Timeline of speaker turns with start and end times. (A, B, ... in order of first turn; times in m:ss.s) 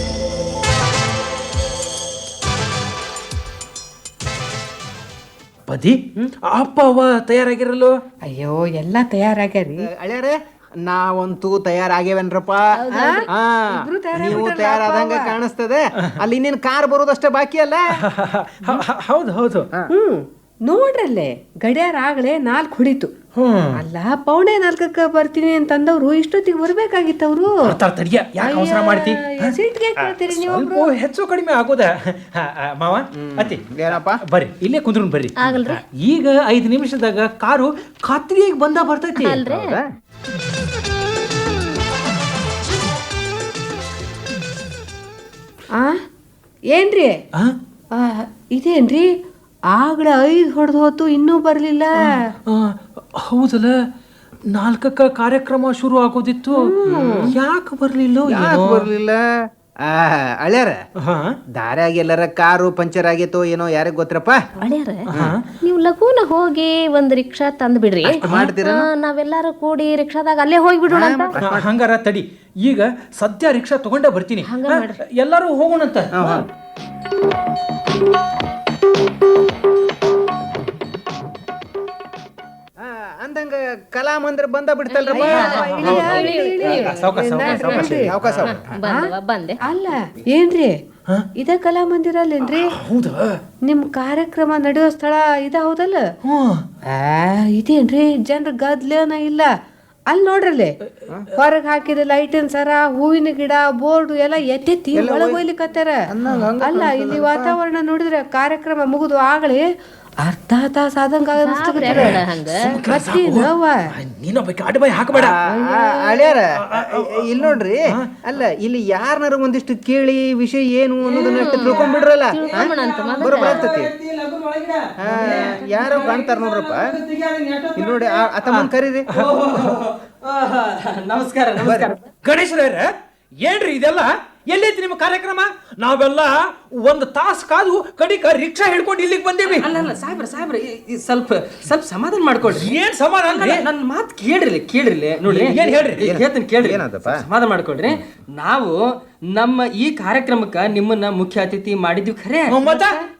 0:05.7-0:07.9 A
0:08.2-0:09.9 B
0:09.8-0:18.0 C
0:12.8-0:13.2 D
0:12.9-0:15.4 B
0:18.0-0:19.7 A
0:19.9-0:23.1 B
0:23.4-0:23.8 A
0:23.8-0:27.8 B
0:27.5-0:33.6 A
0:28.4-0:30.9 B
0:33.2-0:34.2 C
0:34.3-0:39.4 A
0:35.4-0:35.8 D
0:39.2-0:39.8 D
0:39.5-0:39.8 C
0:46.7-0:47.2 B
0:47.9-0:49.1 B
0:49.7-0:52.3 B
0:52.0-0:53.9 A
0:54.5-0:56.7 A
0:56.6-0:57.3 B
0:56.8-0:57.3 C
0:57.3-0:58.9 A
0:58.3-0:59.2 C
0:59.8-1:00.8 C
1:01.0-1:01.4 A
1:01.5-1:04.4 C
1:04.6-1:05.1 D
1:05.1-1:05.4 A
1:05.1-1:05.4 C
1:05.6-1:11.4 D
1:08.0-1:08.9 C
1:10.9-1:11.7 C
1:11.4-1:16.4 A
1:14.4-1:14.9 D
1:16.1-1:16.5 C
1:22.8-1:26.1 C
1:24.9-1:29.6 D
1:25.1-1:28.1 B
1:25.2-1:28.4 A
1:27.8-1:28.7 C
1:28.8-1:29.1 B
1:29.6-1:30.7 B
1:31.4-1:32.8 B
1:32.5-1:33.4 A
1:33.6-1:36.0 B
1:36.2-1:36.6 A
1:36.9-1:39.5 B
1:40.1-1:40.8 B
1:41.3-1:46.0 B
1:44.9-1:45.4 C
1:46.1-1:47.6 C
1:46.6-1:49.6 B
1:50.2-1:52.2 B
1:51.3-1:52.8 D
1:51.9-1:52.2 C
1:51.9-1:55.4 A
1:52.8-1:53.8 B
1:55.1-2:03.9 C
1:55.5-1:56.4 B
1:56.6-1:58.2 A
2:01.0-2:08.4 E
2:01.1-2:03.7 D
2:05.0-2:07.0 C
2:07.8-2:09.1 C
2:08.4-2:09.6 A
2:09.1-2:12.0 E
2:11.6-2:11.9 C
2:12.2-2:12.9 A
2:13.4-2:19.7 A
2:19.4-2:22.8 E
2:22.5-2:23.6 A
2:23.3-2:28.7 E
2:25.3-2:26.1 A
2:26.0-2:27.2 C
2:29.3-2:32.6 E
2:32.5-2:33.0 A
2:32.7-2:33.0 B